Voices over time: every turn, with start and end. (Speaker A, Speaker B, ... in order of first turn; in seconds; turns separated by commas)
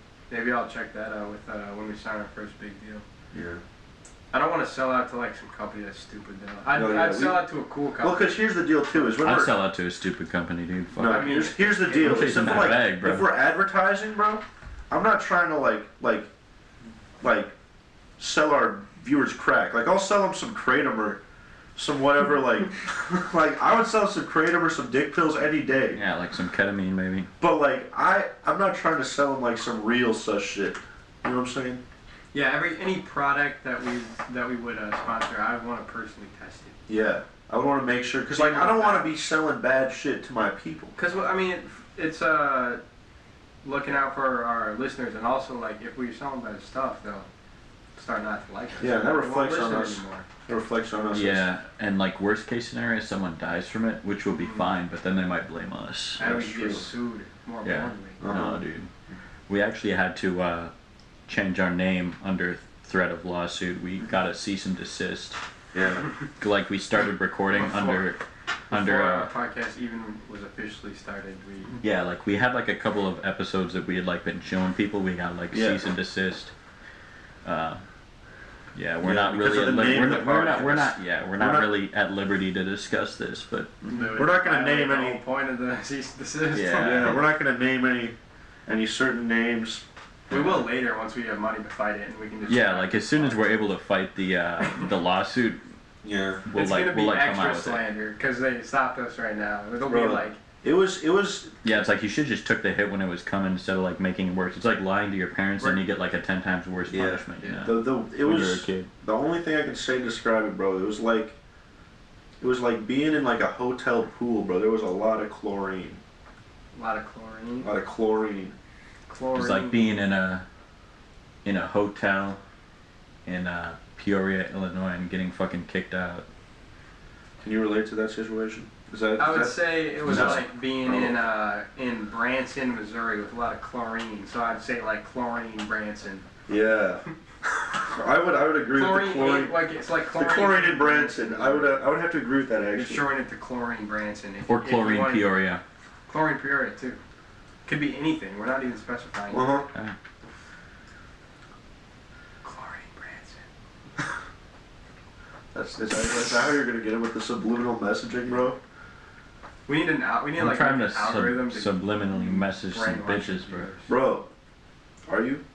Speaker A: 0.3-3.0, Speaker B: 3.3-3.6, Speaker A: 4.3-8.3, Speaker B: 6.7-7.5, Speaker B: 8.0-9.5, Speaker C: 9.2-13.3, Speaker B: 10.9-16.3, Speaker A: 11.0-12.7, Speaker B: 17.2-17.5, Speaker B: 18.2-21.2, Speaker B: 21.8-26.0, Speaker C: 25.9-27.3, Speaker B: 27.4-31.8, Speaker A: 32.3-36.8, Speaker B: 36.9-40.9, Speaker A: 38.3-39.1, Speaker A: 41.0-42.8, Speaker A: 43.6-47.3, Speaker A: 48.0-50.2, Speaker B: 48.8-51.5, Speaker C: 51.1-56.2, Speaker A: 54.3-54.6, Speaker B: 56.2-56.9, Speaker A: 56.2-58.3, Speaker C: 57.6-58.9, Speaker B: 58.2-58.6, Speaker C: 59.5-60.7, Speaker C: 61.3-65.4, Speaker B: 65.7-66.1, Speaker C: 66.4-69.3, Speaker A: 67.5-68.1, Speaker A: 68.7-71.8, Speaker C: 71.8-76.5, Speaker B: 75.5-75.8, Speaker C: 77.4-77.8, Speaker C: 78.7-83.9, Speaker B: 79.0-81.7, Speaker A: 83.9-87.2, Speaker B: 84.0-85.2, Speaker C: 86.5-87.2, Speaker B: 86.8-88.1, Speaker B: 88.7-89.8, Speaker C: 90.3-90.7, Speaker A: 90.3-93.4, Speaker C: 92.5-95.6, Speaker B: 96.0-96.4, Speaker C: 96.5-97.8, Speaker A: 96.5-100.4, Speaker B: 99.9-101.5, Speaker C: 101.6-108.9, Speaker B: 106.9-111.3, Speaker A: 107.4-107.7, Speaker B: 112.4-116.0, Speaker A: 116.7-117.7, Speaker B: 117.6-118.5, Speaker A: 119.1-119.9, Speaker C: 119.3-120.5, Speaker C: 121.4-122.4, Speaker C: 123.2-126.2, Speaker B: 127.4-131.2, Speaker A: 129.2-136.2, Speaker C: 130.1-130.4, Speaker B: 136.5-137.0, Speaker B: 137.7-139.6, Speaker A: 138.7-141.8, Speaker B: 140.1-143.0, Speaker A: 142.8-145.3, Speaker C: 144.5-145.6, Speaker A: 146.1-147.0, Speaker A: 147.7-149.7, Speaker B: 149.3-149.7, Speaker A: 152.4-153.4, Speaker B: 155.5-158.6, Speaker A: 159.7-163.9, Speaker C: 160.4-163.7, Speaker B: 163.9-164.3, Speaker B: 165.1-165.4